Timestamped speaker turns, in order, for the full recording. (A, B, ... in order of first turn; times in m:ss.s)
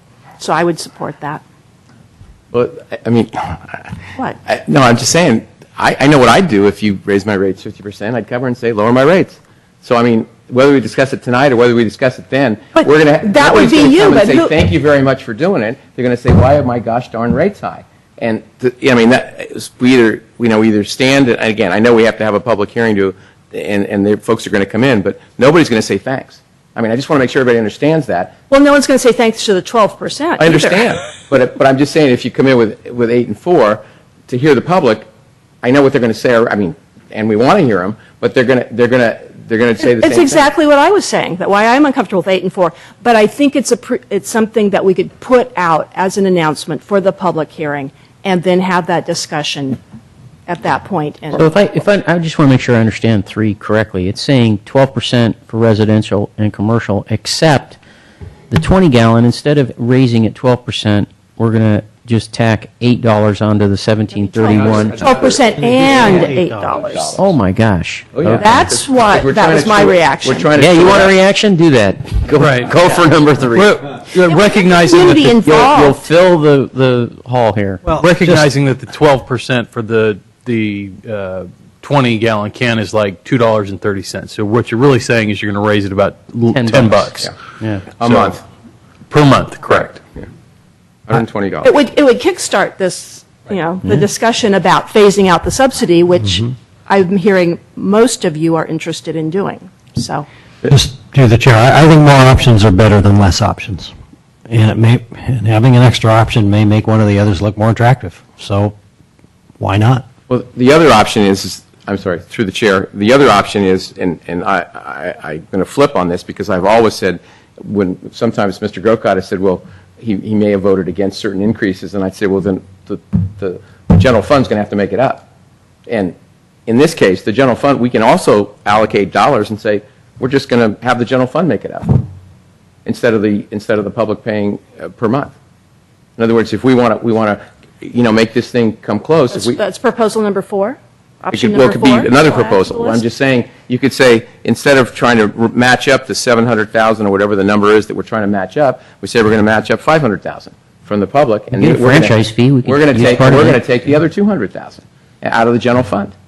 0:00.4-0:01.4 A
0:02.5-0:28.4 B
0:12.8-0:14.5 A
0:28.5-0:30.9 A
0:30.4-0:35.1 B
0:35.6-0:40.5 B
0:39.8-0:49.8 A
0:50.5-0:51.6 A
0:51.3-0:57.8 C
0:58.5-1:05.1 C
1:04.1-1:07.2 A
1:04.5-1:07.3 B
1:05.7-1:06.8 D
1:07.2-1:08.6 C
1:08.1-1:11.2 B
1:08.4-1:10.5 A
1:10.5-1:13.8 C
1:12.4-1:12.8 E
1:13.5-1:15.7 E
1:14.2-1:16.0 A
1:15.4-1:17.8 C
1:17.8-1:18.5 D
1:17.9-1:27.3 E
1:26.5-1:27.9 C
1:28.0-1:28.4 B
1:28.0-1:28.4 E
1:29.1-1:30.0 E
1:31.1-1:31.7 B
1:31.6-1:40.3 A
1:40.7-1:43.9 D
1:44.5-1:48.8 D
1:49.6-1:50.0 D
1:50.3-2:05.3 B
2:05.9-2:06.1 B
2:06.7-2:12.0 B
2:12.8-2:15.3 B
2:16.2-2:19.6 B
2:19.3-2:23.0 A
2:21.3-2:36.1 B
2:31.5-2:33.6 C